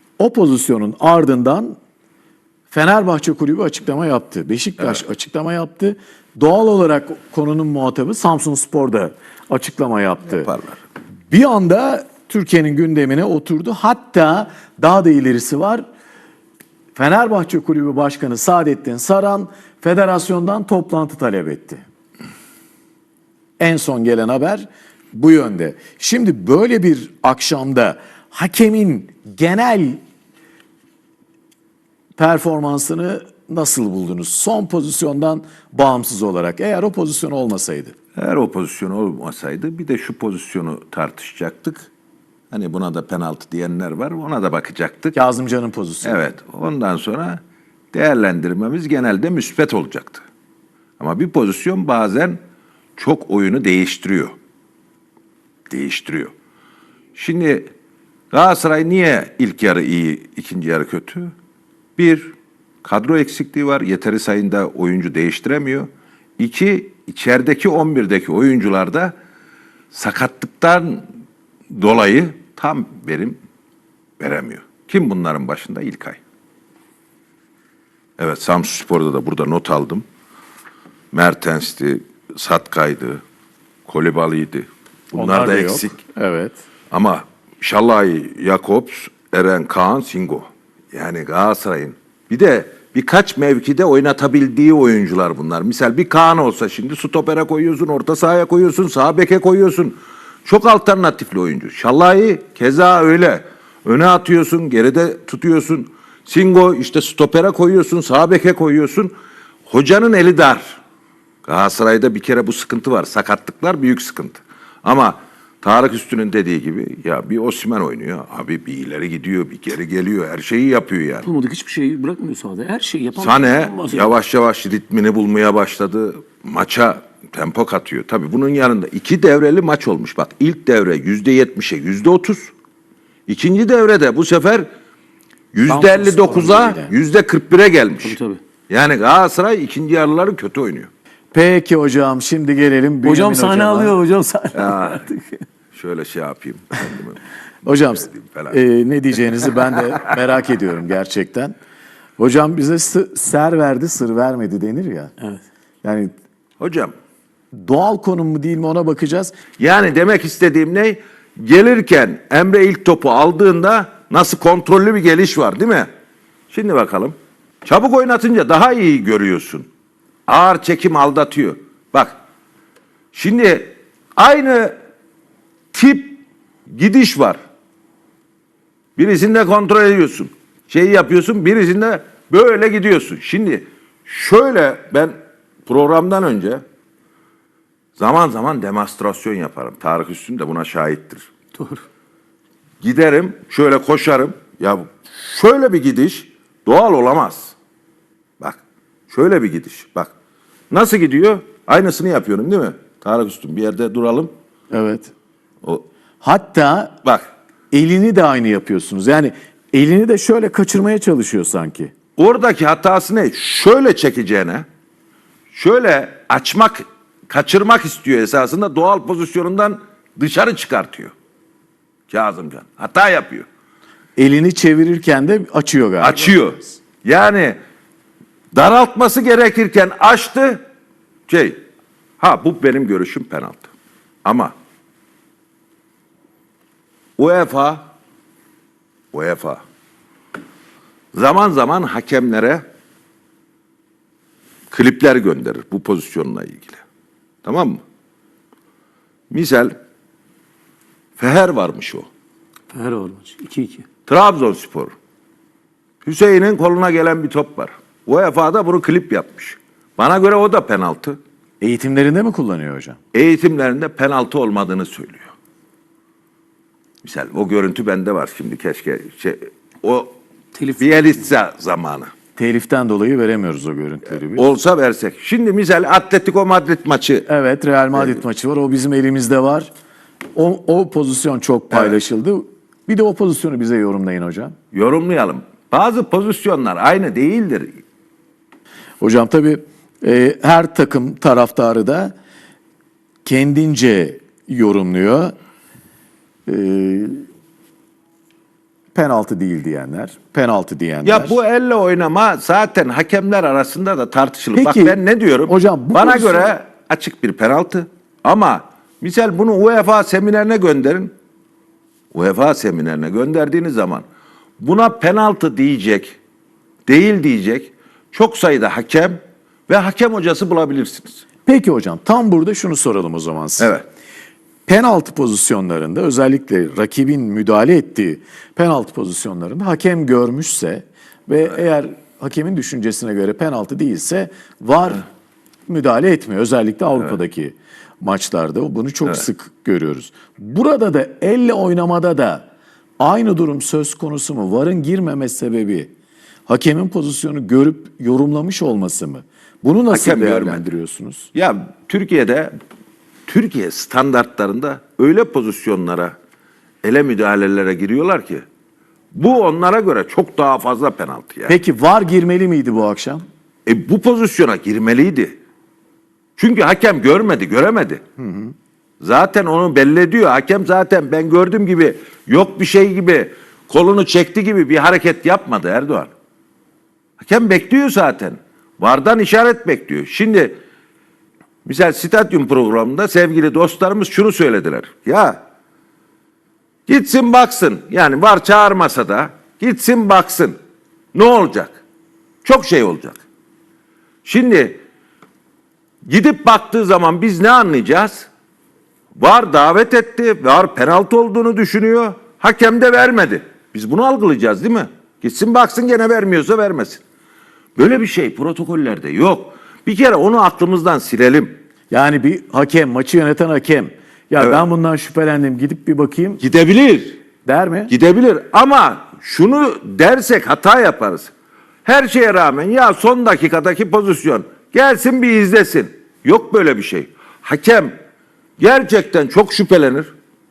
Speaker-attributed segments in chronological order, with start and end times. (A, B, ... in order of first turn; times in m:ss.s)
0:00.2-0:01.8 A
0:02.7-0:10.5 A
0:10.3-0:10.8 B
0:11.3-0:15.8 A
0:16.9-0:21.8 A
0:23.6-0:30.0 A
0:32.2-0:37.9 A
0:38.2-0:41.9 B
0:42.5-0:45.2 B
0:45.1-0:46.2 A
0:46.0-0:47.4 B
0:47.9-0:50.2 B
0:51.0-0:52.4 B
0:53.0-0:54.4 B
0:55.7-0:56.3 B
0:57.1-0:57.7 B
0:58.3-1:01.3 B
1:02.0-1:09.1 B
1:09.9-1:11.1 B
1:11.7-1:13.4 B
1:14.2-1:16.2 B
1:18.2-1:20.0 B
1:21.1-1:23.2 B
1:23.8-1:26.0 B
1:25.1-1:26.6 A
1:26.9-1:49.1 B
1:49.7-1:50.8 B
1:51.4-2:01.3 B
2:01.2-2:04.1 C
2:03.2-2:12.5 B
2:13.3-2:14.6 B
2:15.5-2:18.2 B
2:15.6-2:16.9 A
2:18.0-2:18.4 C
2:18.7-2:20.9 B
2:21.3-2:24.0 A
2:23.0-2:25.4 C
2:24.5-2:25.0 B
2:25.7-2:28.6 B
2:27.6-2:31.5 A
2:32.2-2:35.1 A
2:35.8-2:36.1 A
2:36.6-2:36.9 B
2:37.5-2:39.3 A
2:39.6-2:45.9 B
2:46.5-2:49.7 B
2:50.3-2:52.2 B
2:53.1-2:54.7 B
2:55.7-2:57.4 B
2:59.0-3:05.1 B
3:05.6-3:06.6 B
3:08.0-3:11.3 B
3:12.8-3:17.6 B
3:18.4-3:20.1 B
3:20.7-3:24.3 B
3:24.7-3:25.1 A
3:26.2-3:26.9 A
3:27.7-3:31.9 A
3:32.2-3:34.6 B
3:35.5-3:41.1 B
3:42.1-3:43.5 B
3:44.2-3:46.7 A
3:46.0-3:47.6 B
3:48.5-3:50.6 B
3:51.3-3:51.6 B
3:52.2-3:53.7 B
3:54.2-3:54.5 B
3:57.2-3:57.9 B
3:59.1-3:59.6 B
4:01.1-4:02.6 B
4:04.7-4:06.8 B
4:07.4-4:07.8 B
4:09.3-4:09.7 B
4:11.2-4:12.1 B
4:12.7-4:13.8 C
4:14.0-4:14.9 B
4:16.0-4:21.2 B
4:21.6-4:23.0 A
4:23.1-4:25.3 B
4:27.0-4:32.1 B
4:32.4-4:34.5 A
4:34.2-4:37.2 B
4:37.3-4:39.7 A
4:40.3-4:44.5 A
4:44.7-4:47.8 B
4:49.0-4:52.1 A
4:53.2-4:55.3 A
4:56.4-4:57.2 A
4:58.9-5:01.4 A
5:01.0-5:11.1 B
5:04.5-5:06.6 A
5:12.1-5:14.0 B
5:14.6-5:16.2 B
5:16.8-5:21.2 B
5:21.4-5:23.7 A
5:23.6-5:23.8 B
5:24.6-5:35.0 A
5:35.7-5:42.5 A
5:43.0-5:45.9 A
5:46.5-5:51.3 A
5:49.9-5:50.7 B
5:51.3-5:52.5 B
5:53.3-5:56.1 B
5:56.8-5:58.4 B
5:59.1-6:01.6 B
6:01.5-6:03.2 A
6:03.6-6:05.4 B
6:06.4-6:08.0 B
6:08.2-6:08.5 A
6:09.0-6:16.1 B
6:17.2-6:20.6 B
6:21.6-6:25.4 B
6:26.9-6:30.6 B
6:31.1-6:31.8 B
6:32.4-6:33.2 B
6:34.2-6:34.8 B
6:36.1-6:38.3 B
6:39.1-6:47.0 B
6:47.8-6:51.5 B
6:51.9-6:56.4 A
6:54.4-6:54.6 B
6:56.4-6:57.2 B
6:57.4-6:57.9 A
6:57.9-7:01.3 B
7:01.8-7:07.9 B
7:08.6-7:10.1 B